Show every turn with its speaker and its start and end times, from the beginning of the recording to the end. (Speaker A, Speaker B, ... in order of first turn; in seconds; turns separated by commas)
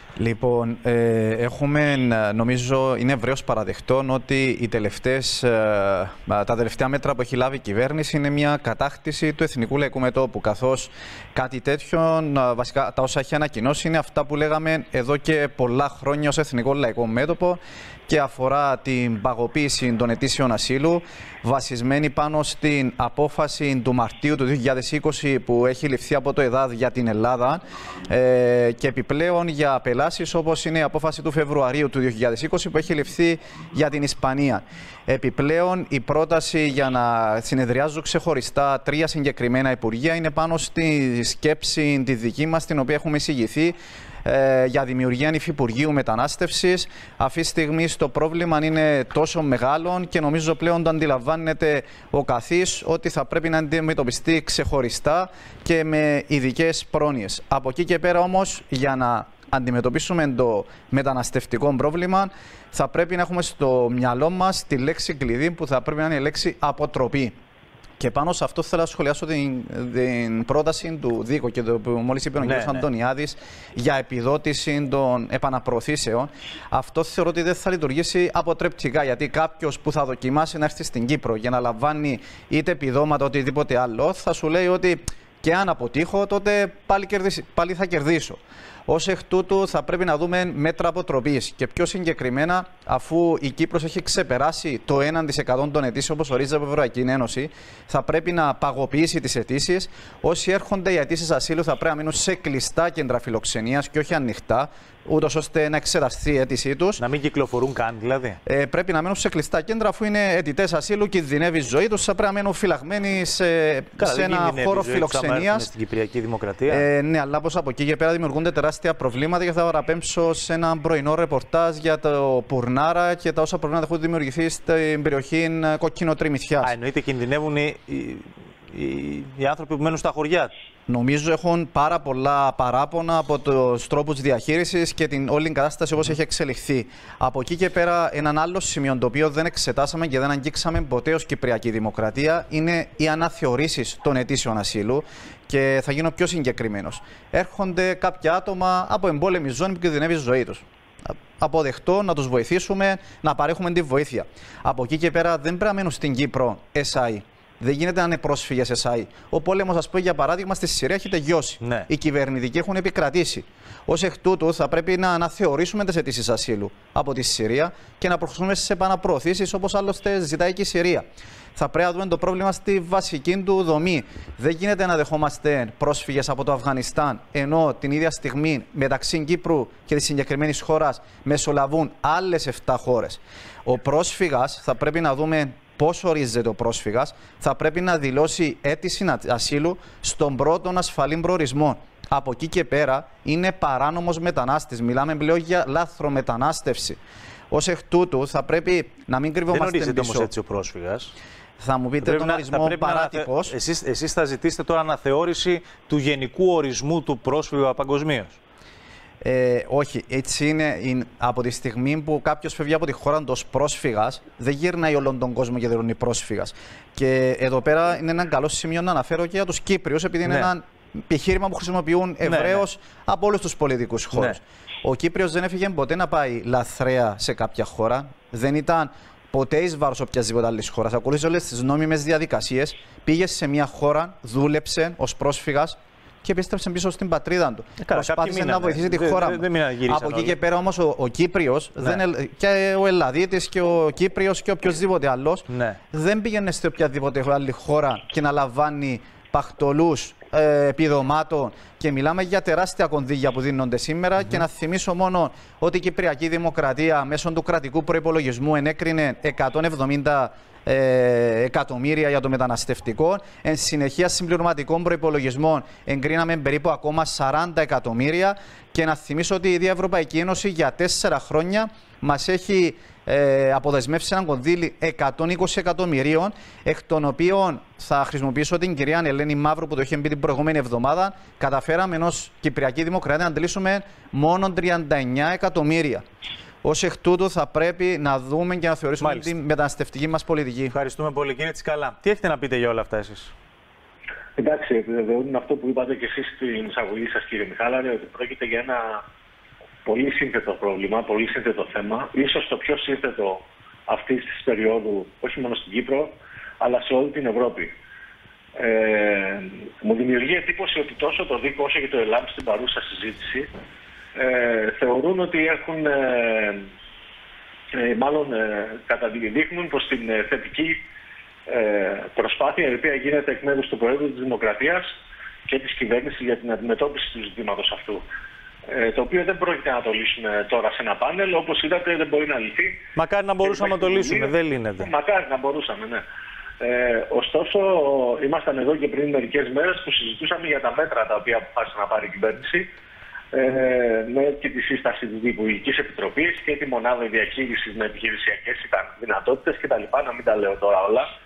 Speaker A: 0.2-67.3, Speaker A: 68.0-107.0, Speaker B: 72.4-72.8, Speaker B: 107.0-108.4, Speaker A: 108.5-115.7, Speaker B: 114.0-116.9, Speaker A: 116.7-126.7, Speaker B: 126.6-130.5, Speaker A: 130.9-197.0, Speaker B: 161.6-161.9, Speaker A: 197.5-200.3, Speaker B: 199.5-201.1, Speaker A: 201.6-203.6, Speaker B: 202.0-208.4, Speaker A: 209.2-286.0, Speaker B: 220.2-220.5, Speaker B: 222.2-222.7, Speaker B: 237.8-240.4, Speaker B: 245.5-245.8, Speaker A: 286.6-290.8, Speaker B: 289.0-289.3, Speaker B: 290.7-293.3, Speaker C: 294.4-299.0, Speaker C: 299.9-307.7, Speaker C: 308.6-313.5, Speaker C: 314.1-316.7, Speaker C: 317.7-320.8, Speaker C: 321.5-324.9, Speaker C: 325.5-328.1, Speaker C: 328.7-332.8, Speaker B: 332.9-334.9, Speaker C: 333.4-336.0, Speaker C: 336.6-342.7, Speaker C: 343.3-351.1